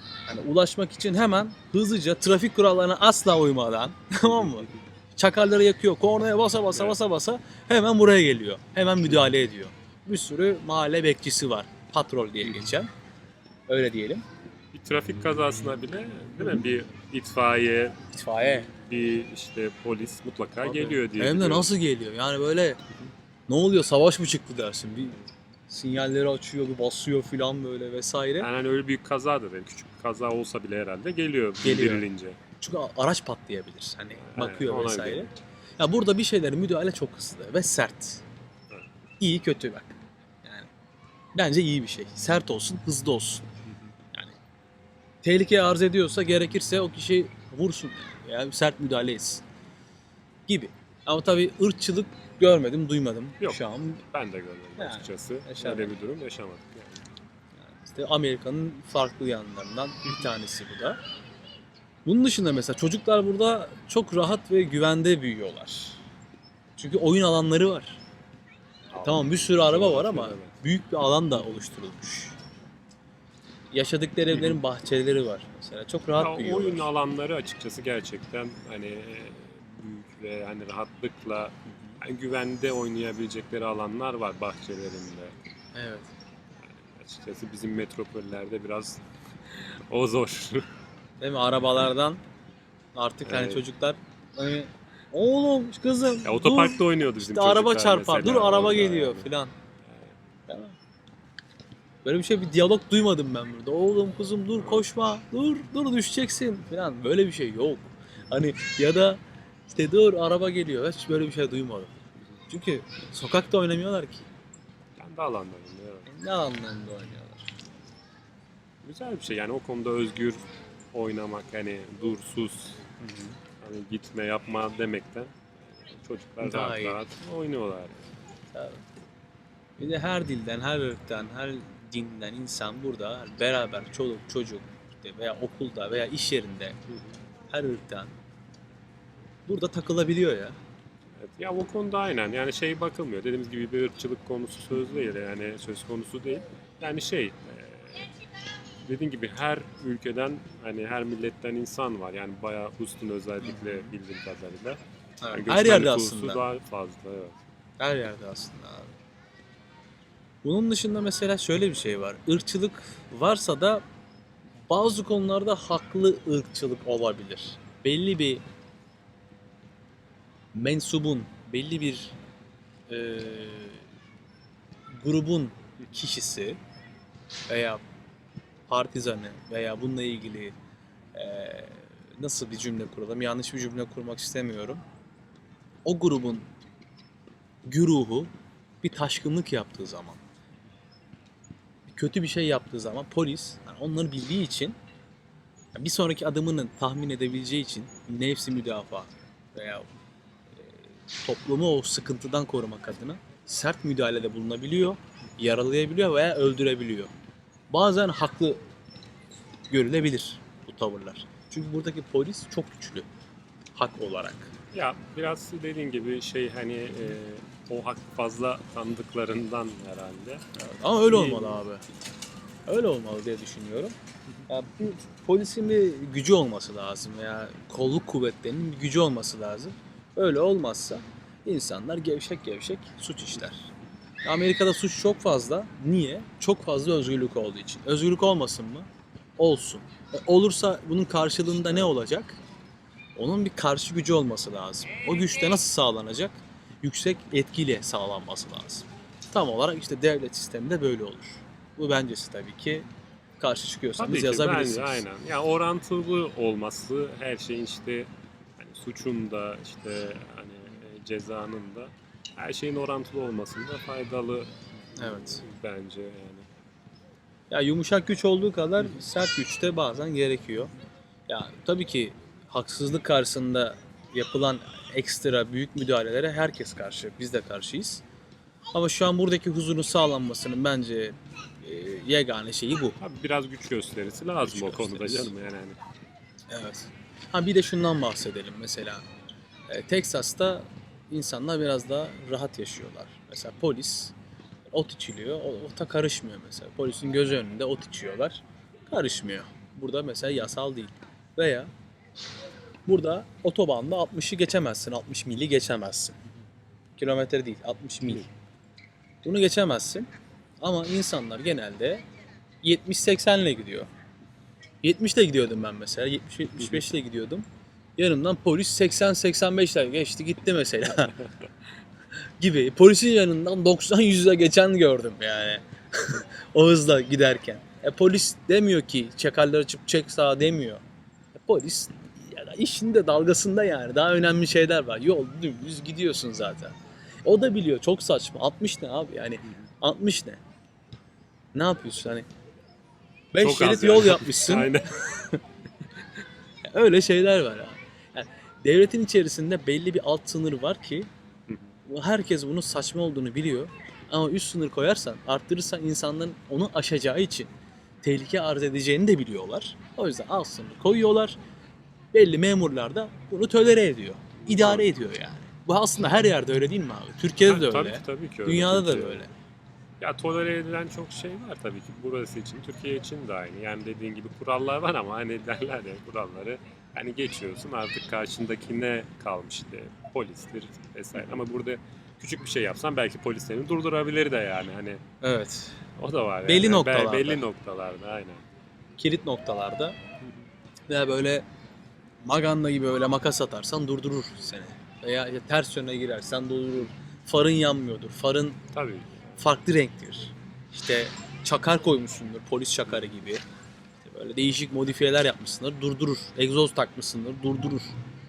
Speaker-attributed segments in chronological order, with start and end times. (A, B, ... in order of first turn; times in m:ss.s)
0:00.3-0:12.9 A
0:13.7-0:14.2 A
0:14.7-0:21.7 B
0:18.1-0:18.7 A
0:20.6-0:22.8 A
0:23.5-0:28.5 A
0:28.4-0:32.4 B
0:31.6-0:32.0 A
0:32.6-0:38.2 A
0:34.2-0:35.3 B
0:39.2-0:40.7 A
0:41.3-0:43.4 A
0:45.2-0:49.4 A
0:50.5-0:54.0 A
0:53.4-0:57.1 B
0:54.8-0:55.9 A
0:57.7-1:01.0 A
1:02.0-1:06.0 A
1:06.8-1:08.0 A
1:08.9-1:10.5 B
1:09.0-1:12.4 A
1:13.7-1:16.9 A
1:16.2-1:25.3 B
1:21.7-1:22.0 A
1:25.7-1:26.1 A
1:26.6-1:30.7 B
1:31.2-1:32.2 A
1:33.0-1:39.5 A
1:33.2-1:33.6 B
1:36.2-1:39.3 B
1:39.8-1:40.2 B
1:40.5-1:40.8 A
1:42.0-1:51.9 A
1:44.6-1:44.8 B
1:52.5-1:54.2 A
1:55.0-1:56.1 B
1:56.1-1:57.5 A
1:58.8-2:02.8 B
2:03.0-2:03.4 A
2:03.6-2:08.1 B
2:06.4-2:07.0 A
2:08.5-2:08.8 A
2:09.8-2:16.8 A
2:17.5-2:18.1 A
2:19.5-2:20.6 A
2:21.1-2:28.1 B
2:28.8-2:34.8 B
2:33.4-2:33.9 A
2:35.2-2:36.4 A
2:35.3-2:37.4 B
2:37.8-2:38.9 A
2:40.4-2:43.8 A
2:44.7-2:48.4 A
2:50.5-2:52.2 A
2:52.9-2:53.8 A
2:54.9-2:56.6 A
2:57.5-2:57.8 A
2:58.7-3:00.5 A
3:01.1-3:04.8 A
3:05.8-3:06.5 A
3:07.6-3:08.3 A
3:08.8-3:10.2 A
3:11.9-3:14.8 A
3:15.8-3:19.9 A
3:20.6-3:27.1 A
3:27.7-3:28.6 A
3:29.7-3:33.1 A
3:33.8-3:34.5 A
3:34.7-3:40.4 B
3:40.5-3:41.8 A
3:41.1-3:41.6 B
3:42.7-3:44.0 A
3:44.5-3:53.7 A
3:54.2-4:02.4 A
4:03.2-4:12.9 A
4:13.4-4:15.0 A
4:14.0-4:26.5 B
4:25.0-4:25.4 A
4:27.5-4:30.7 A
4:31.3-4:38.0 A
4:38.7-4:43.0 A
4:43.0-4:45.8 B
4:44.4-4:45.3 A
4:46.5-4:49.0 A
4:49.7-4:54.1 A
4:54.7-5:01.7 A
5:02.8-5:06.2 A
5:07.0-5:08.3 A
5:09.2-5:10.1 A
5:10.6-5:12.0 A
5:12.6-5:13.9 A
5:14.8-5:17.4 A
5:18.0-5:21.2 A
5:22.4-5:30.8 A
5:31.3-5:40.4 A
5:41.5-5:42.2 A
5:43.3-5:45.4 A
5:43.4-5:45.0 B
5:46.7-5:51.1 A
5:51.5-5:51.8 B
5:51.8-5:57.5 A
5:58.0-6:01.4 A
6:02.1-6:09.3 A
6:04.4-6:04.9 B
6:07.4-6:09.2 B
6:10.0-6:25.0 B
6:25.2-6:25.8 A
6:26.0-6:28.4 B
6:26.4-6:27.4 A
6:29.0-6:30.0 A
6:30.9-6:31.4 A
6:32.2-6:38.6 A
6:38.7-6:39.2 B
6:39.4-6:43.4 A
6:44.0-6:47.9 A